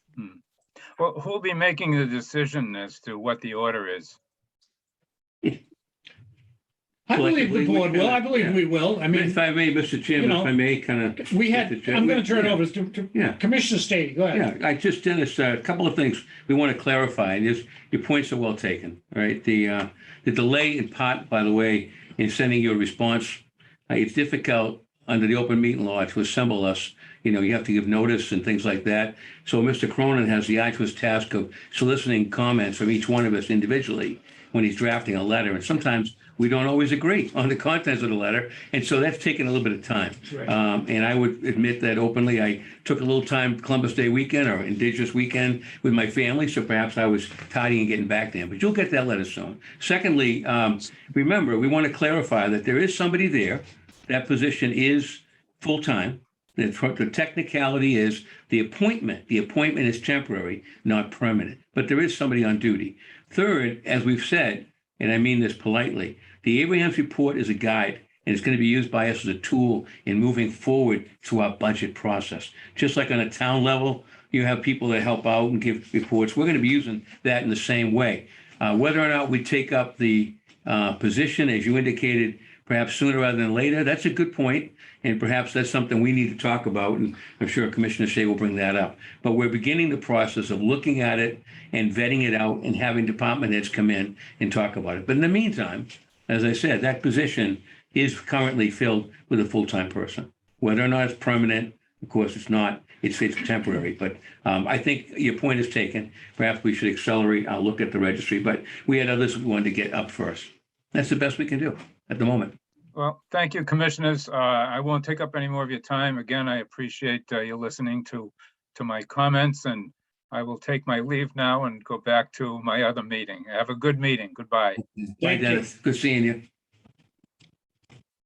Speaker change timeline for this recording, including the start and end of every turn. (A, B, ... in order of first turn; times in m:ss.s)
0:01.0-0:04.2 A
0:07.1-0:09.4 B
0:07.1-0:12.6 C
0:10.2-0:10.5 B
0:11.2-0:14.5 B
0:13.1-0:13.4 C
0:14.3-1:52.6 C
1:52.9-2:04.8 A
2:05.2-2:06.4 C
2:05.3-2:05.6 B